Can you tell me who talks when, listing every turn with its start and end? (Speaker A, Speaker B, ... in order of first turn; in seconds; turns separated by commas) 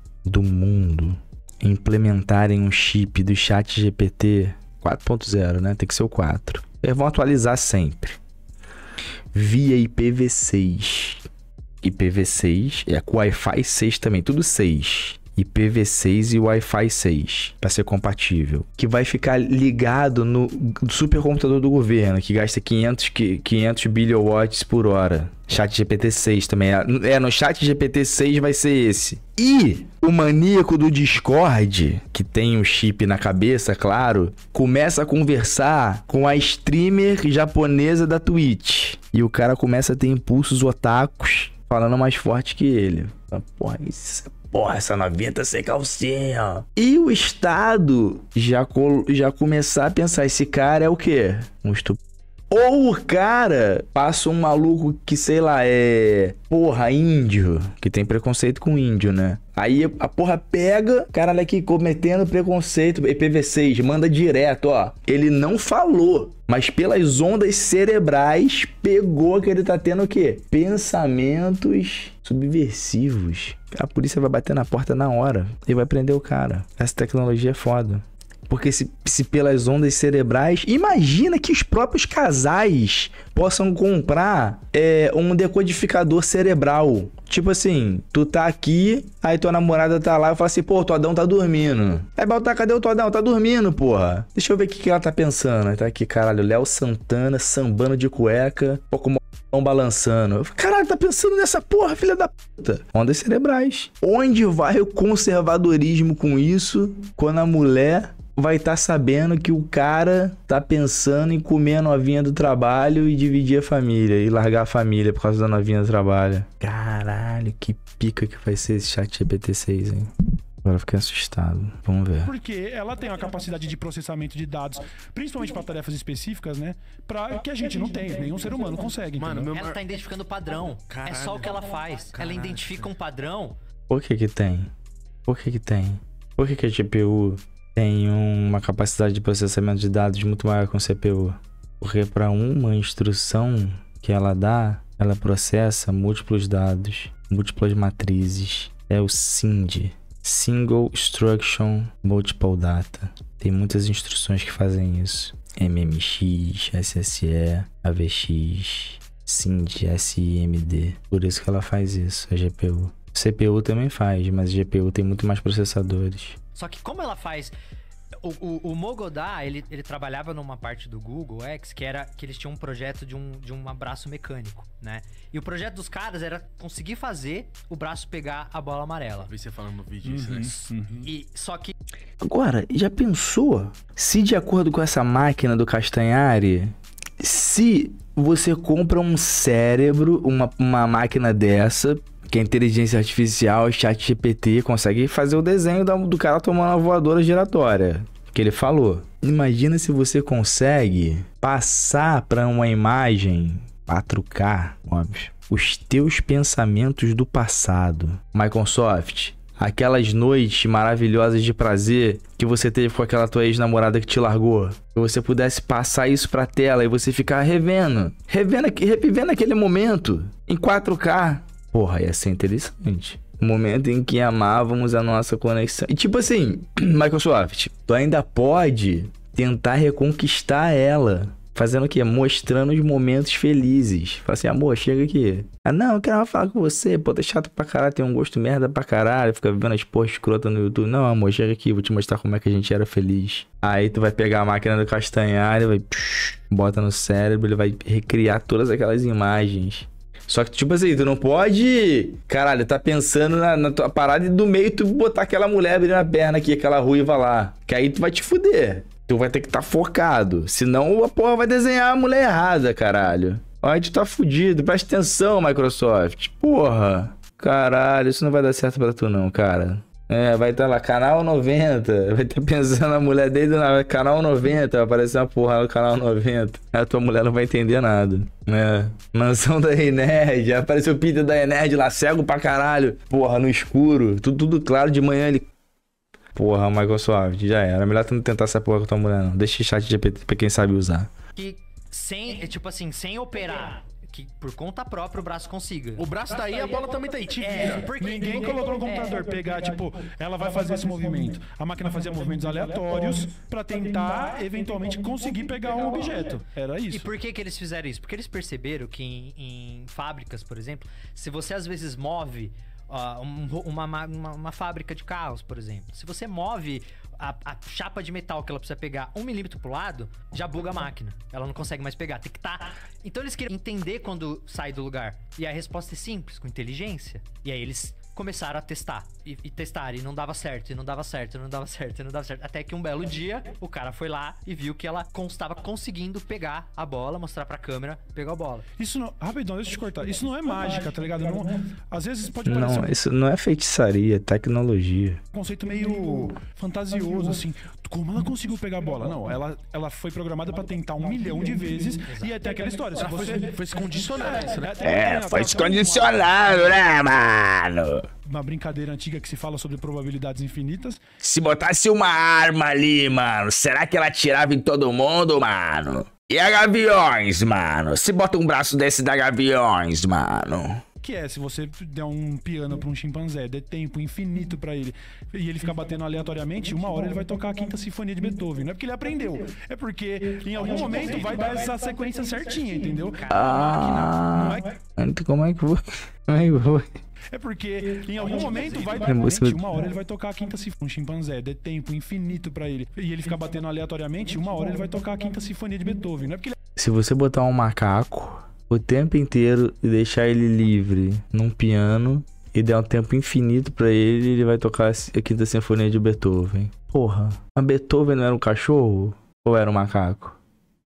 Speaker A: 0.2-8.2, Speaker A: 9.3-11.3, Speaker A: 11.8-52.0, Speaker A: 52.5-120.1, Speaker A: 120.6-122.3, Speaker B: 122.2-129.5, Speaker C: 129.2-129.8, Speaker D: 129.5-133.5, Speaker C: 130.9-132.9, Speaker A: 133.9-134.7, Speaker A: 135.2-166.4, Speaker D: 166.5-167.5, Speaker D: 168.2-179.3, Speaker C: 179.3-181.1, Speaker B: 180.0-181.0, Speaker D: 181.0-181.7, Speaker A: 182.2-285.5, Speaker A: 286.3-291.1, Speaker D: 291.4-296.1, Speaker C: 296.0-297.9, Speaker D: 297.4-299.1, Speaker B: 297.9-307.1, Speaker D: 306.9-338.6, Speaker B: 338.8-342.9, Speaker A: 342.4-345.2, Speaker B: 345.3-356.8, Speaker D: 352.1-352.3, Speaker C: 353.0-354.8, Speaker A: 354.8-358.1, Speaker B: 358.2-361.0, Speaker A: 361.2-370.8, Speaker B: 371.0-384.7, Speaker D: 383.2-384.1, Speaker A: 383.3-386.9, Speaker B: 387.3-396.6, Speaker A: 389.0-389.6, Speaker A: 396.8-410.4